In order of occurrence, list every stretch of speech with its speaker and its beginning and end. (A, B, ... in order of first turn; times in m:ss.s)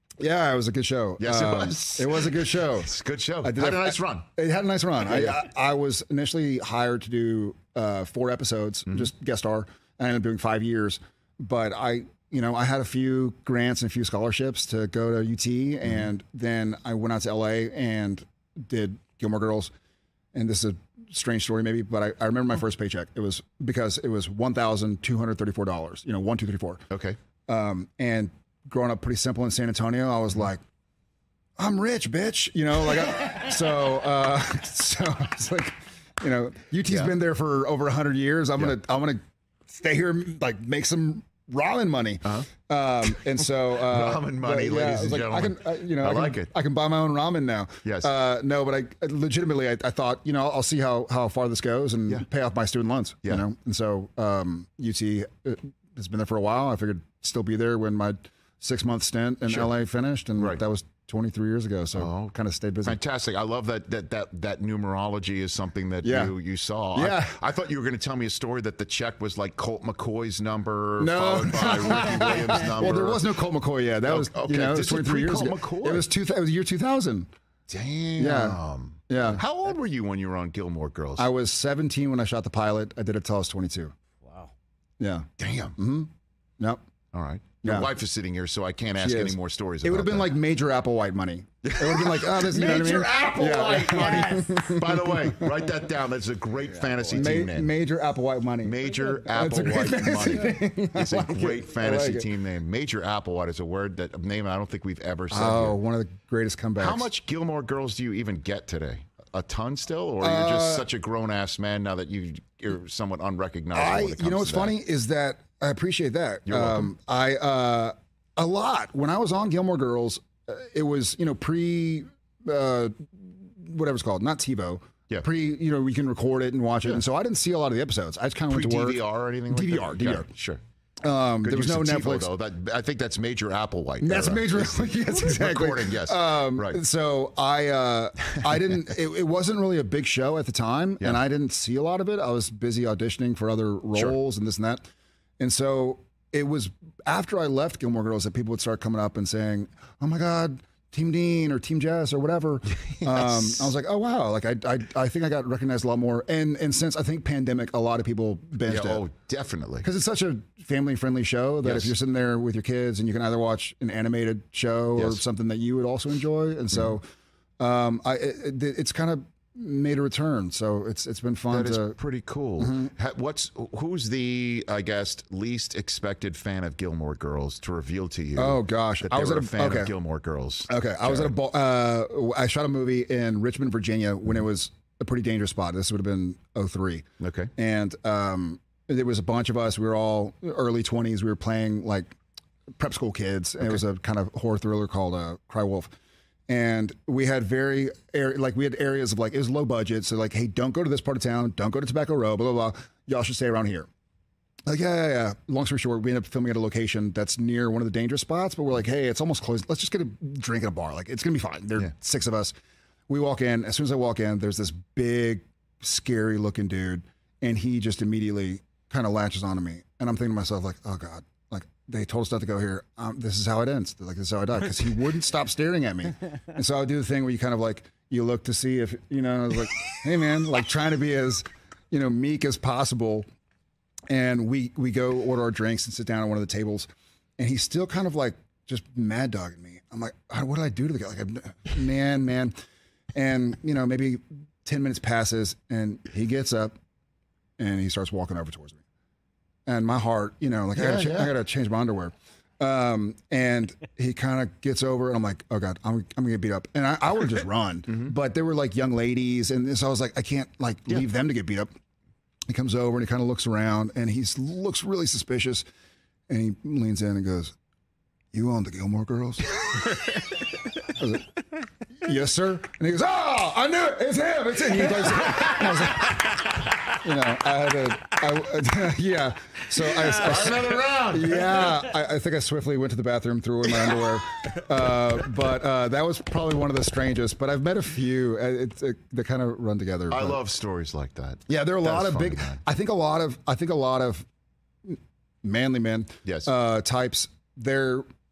0:00.2-0:19.7 A
0:01.2-0:04.3 B
0:05.1-0:05.5 B
0:20.3-0:26.8 A
0:26.9-0:27.2 B
0:27.5-0:30.6 A
0:31.6-1:03.0 A
0:36.9-0:37.2 B
0:43.8-0:46.5 B
0:47.8-0:48.1 B
1:02.0-1:13.3 B
1:06.0-1:06.3 A
1:06.9-1:07.4 A
1:11.0-1:17.3 A
1:14.0-1:16.1 B
1:17.7-1:21.3 B
1:18.2-1:19.4 A
1:21.2-1:23.9 A
1:25.0-1:26.8 A
1:25.4-1:25.8 B
1:27.1-1:30.3 B
1:27.6-1:27.9 A
1:29.0-1:35.5 A
1:31.6-1:37.7 B
1:37.1-1:42.3 A
1:38.6-1:45.8 B
1:45.3-1:47.1 A
1:46.8-1:54.8 B
1:50.2-1:50.9 A
1:53.7-2:10.3 A
1:56.5-1:56.9 B
2:08.5-2:10.6 B
2:11.0-2:12.3 A
2:11.4-2:16.8 B
2:14.0-2:24.8 A
2:25.4-2:39.1 A
2:32.9-2:33.7 B
2:38.7-2:39.9 B
2:39.8-2:47.0 A
2:41.6-2:42.0 B
2:45.0-2:45.2 B
2:47.6-2:52.0 A
2:51.5-3:01.3 B
2:52.6-2:52.9 A
2:58.4-2:59.9 A
3:00.7-3:07.1 A
3:07.2-3:07.5 B
3:07.6-3:12.2 A
3:12.8-3:15.9 A
3:16.5-3:23.9 A
3:24.7-3:32.5 A
3:33.1-3:53.3 A
3:54.1-4:02.5 A
4:03.2-4:06.8 A
4:07.6-4:08.8 A
4:09.7-4:21.7 A
4:10.8-4:11.3 B
4:22.5-4:25.6 A
4:26.3-4:27.5 A
4:28.3-4:29.6 A
4:30.8-4:31.2 A
4:32.0-4:50.4 A
4:40.1-4:41.7 B
4:50.1-4:52.6 B
4:51.5-4:54.3 A
4:54.8-4:58.0 A
4:56.2-4:56.5 B